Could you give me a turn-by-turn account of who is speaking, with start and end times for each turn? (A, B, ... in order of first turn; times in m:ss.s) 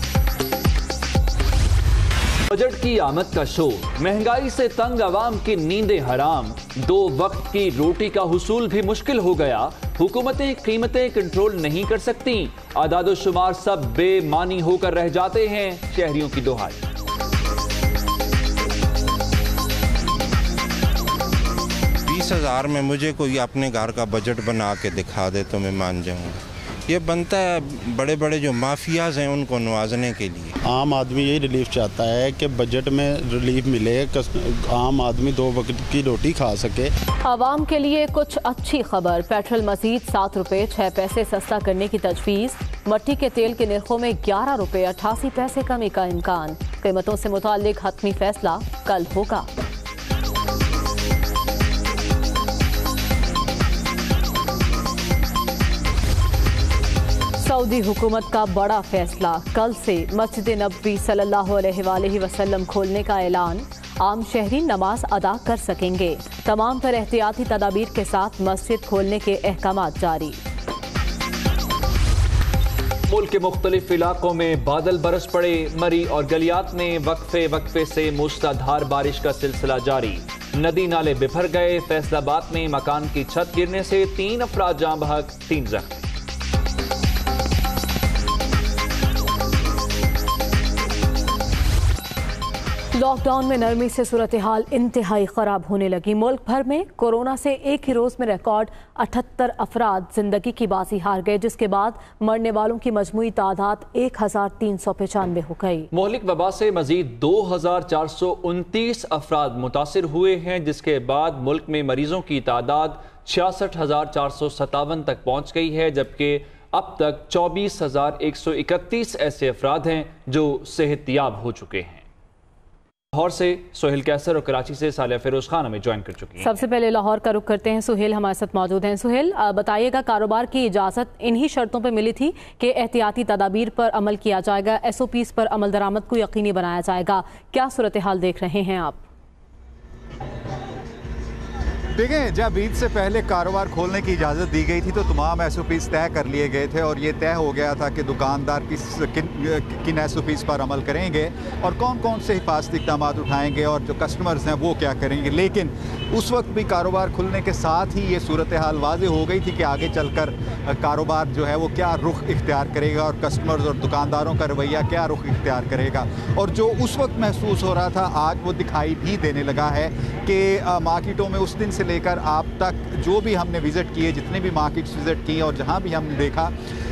0:02.5-0:16.8 A
0:22.1-0:30.5 B
0:30.6-0:36.9 C
0:37.2-0:49.5 D
0:57.4-1:10.4 D
1:13.1-1:26.1 A
1:32.9-1:45.9 D
1:45.9-2:02.0 A
2:03.1-2:06.6 A
2:06.4-2:19.0 D
2:22.0-2:56.5 E